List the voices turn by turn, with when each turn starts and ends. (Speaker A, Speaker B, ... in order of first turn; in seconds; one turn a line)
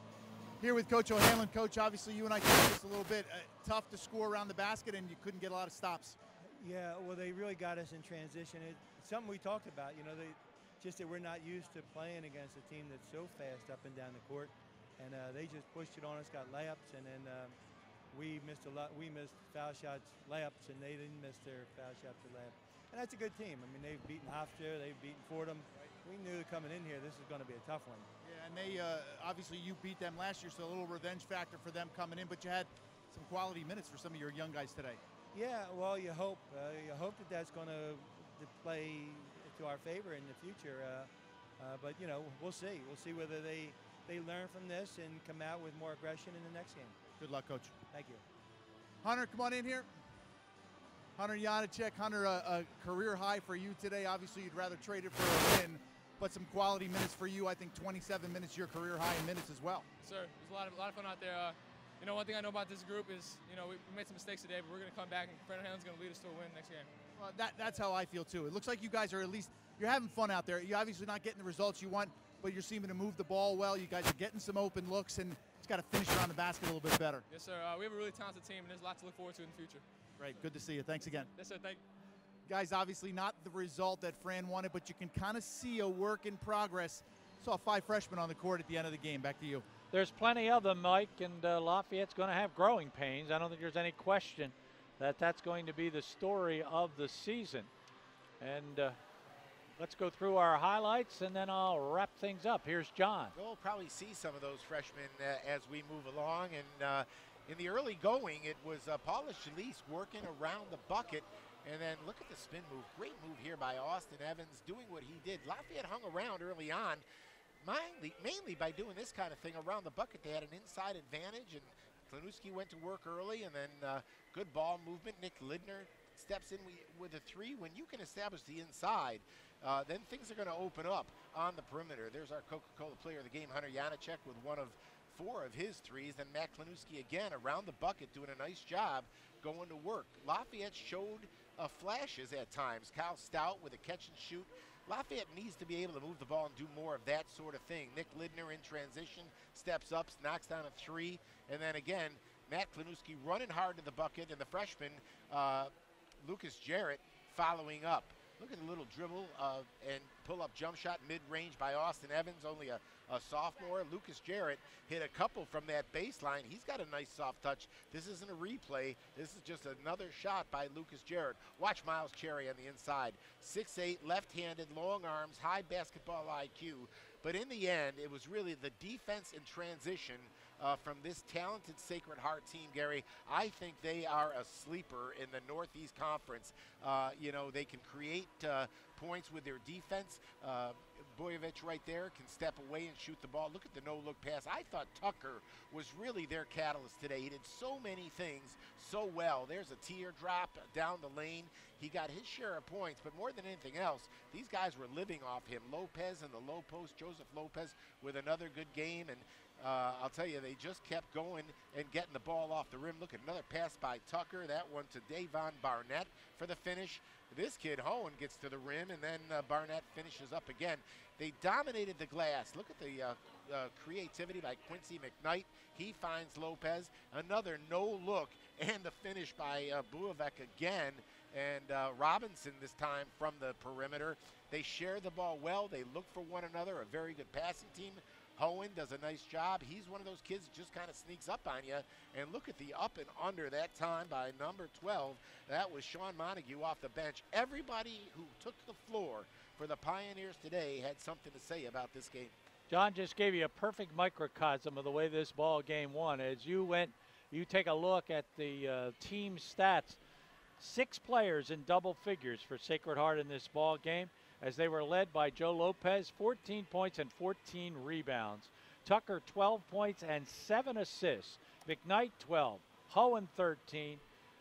Speaker A: 0.6-6.2
Speaker B: 6.6-17.6
Speaker B: 18.1-28.1
Speaker A: 28.2-35.0
Speaker B: 35.3-47.0
Speaker A: 47.2-47.7
Speaker B: 47.9-48.2
Speaker A: 49.0-49.9
Speaker A: 51.2-59.9
Speaker C: 60.0-66.9
Speaker A: 67.2-77.2
Speaker C: 77.3-79.8
Speaker A: 80.2-81.3
Speaker C: 81.1-81.8
Speaker A: 82.5-89.6
Speaker D: 89.9-97.7
Speaker D: 98.4-99.0
Speaker D: 99.8-103.3
Speaker E: 103.3-117.0
Speaker E: 117.6-155.7
Speaker E: 156.2-252.3
Speaker D: 252.7-260.0
Speaker D: 260.6-274.0